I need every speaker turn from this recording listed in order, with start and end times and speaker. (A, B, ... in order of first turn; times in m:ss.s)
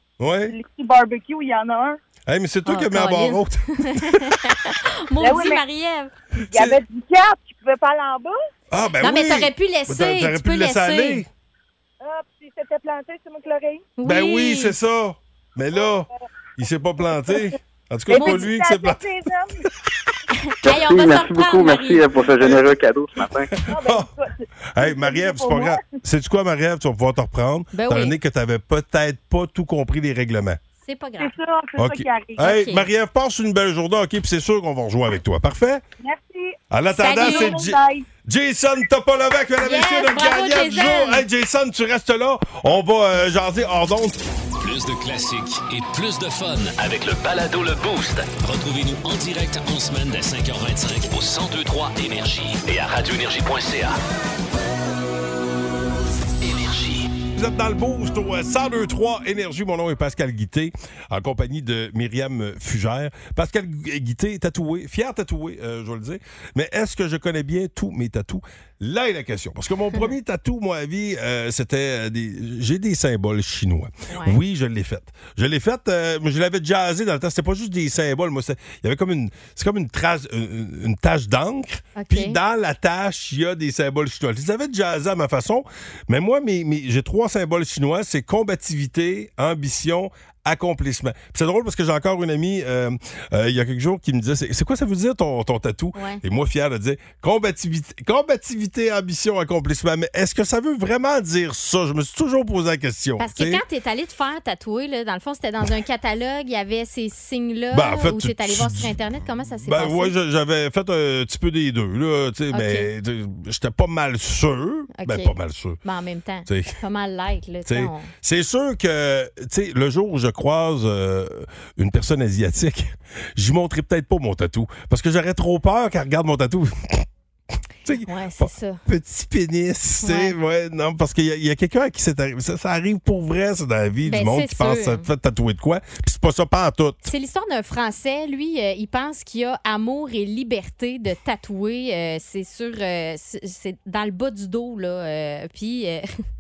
0:00.2-0:00.5 A
0:00.5-0:02.0 B
0:02.3-0:04.4 A
0:02.7-0:06.1 C
0:05.2-0:05.6 B
0:06.5-0:08.4 B
0:06.5-0:06.8 A
0:08.7-0:11.3 A
0:09.0-0:11.2 C
0:12.0-0:13.9 B
0:14.0-0:14.8 C
0:14.0-0:19.0 A
0:17.0-0:17.5 B
0:18.1-0:19.6 B
0:18.1-0:18.5 C
0:20.3-0:22.2 C
0:20.6-0:23.5 D
0:22.4-0:22.7 A
0:23.5-0:24.1 A
0:23.7-0:26.0 B
0:24.7-0:30.6 A
0:27.7-0:28.1 C
0:30.8-0:31.3 C
0:31.2-0:32.6 B
0:31.8-0:35.8 A
0:32.4-0:32.9 C
0:36.0-0:38.1 B
0:36.7-0:44.2 A
0:37.0-0:37.6 C
0:39.6-0:41.2 C
0:44.6-0:54.0 E
0:56.4-0:57.1 E
0:57.4-1:43.6 A
1:14.1-1:14.4 C
1:22.0-1:22.4 C
1:36.0-1:36.2 C
1:43.2-1:50.1 C
1:47.7-1:49.0 A
1:49.6-1:55.8 A
1:52.5-1:52.9 C
1:54.9-1:58.1 C
1:56.5-1:56.8 A
1:57.6-2:07.1 A
2:07.8-2:17.1 A
2:08.0-2:08.8 C
2:10.0-2:10.4 C
2:14.0-2:15.1 C
2:17.1-2:26.2 C